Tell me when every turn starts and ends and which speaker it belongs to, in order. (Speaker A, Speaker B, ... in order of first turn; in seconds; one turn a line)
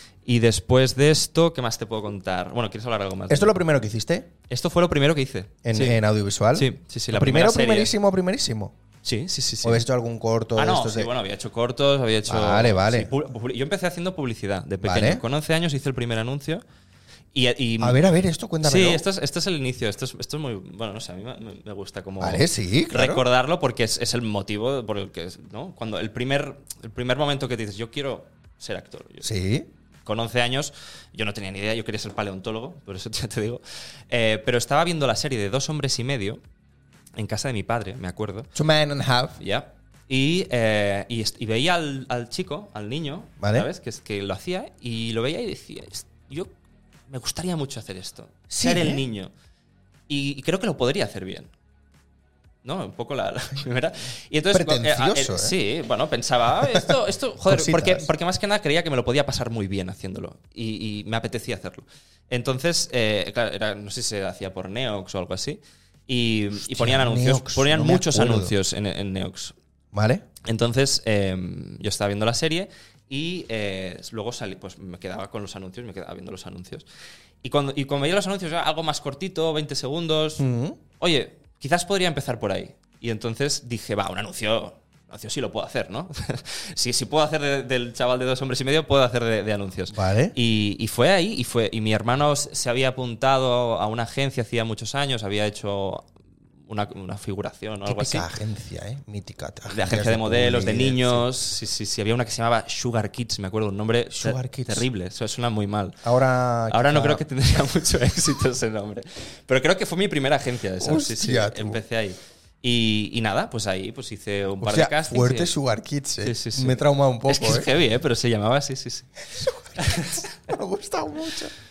Speaker A: 0.2-3.6
Speaker B: 3.3-4.3
Speaker A: 4.5-6.0
Speaker B: 5.6-8.7
Speaker A: 6.5-7.9
Speaker A: 9.0-9.8
Speaker B: 9.6-11.1
Speaker A: 10.5-16.6
Speaker B: 12.2-13.1
Speaker B: 14.8-15.2
Speaker A: 17.3-18.0
Speaker B: 17.8-19.0
Speaker A: 18.6-29.3
Speaker B: 22.2-23.2
Speaker B: 29.2-29.7
Speaker A: 30.0-36.4
Speaker A: 37.1-38.5
Speaker B: 38.5-39.4
Speaker A: 39.4-46.5
Speaker B: 43.4-43.7
Speaker A: 47.1-49.3
Speaker B: 48.5-49.0
Speaker A: 50.1-51.5
Speaker A: 52.6-69.5
Speaker B: 54.5-55.5
Speaker B: 57.5-58.1
Speaker B: 66.6-68.5
Speaker B: 69.9-70.2
Speaker A: 70.4-76.9
Speaker A: 77.4-80.5
Speaker B: 80.4-80.8
Speaker A: 81.0-96.1
Speaker B: 89.9-90.3
Speaker A: 96.6-98.2
Speaker B: 97.8-101.2
Speaker A: 99.7-106.0
Speaker B: 104.1-104.8
Speaker B: 106.0-107.2
Speaker A: 106.7-115.5
Speaker B: 110.8-111.8
Speaker B: 114.6-117.7
Speaker A: 116.2-120.3
Speaker B: 119.4-121.5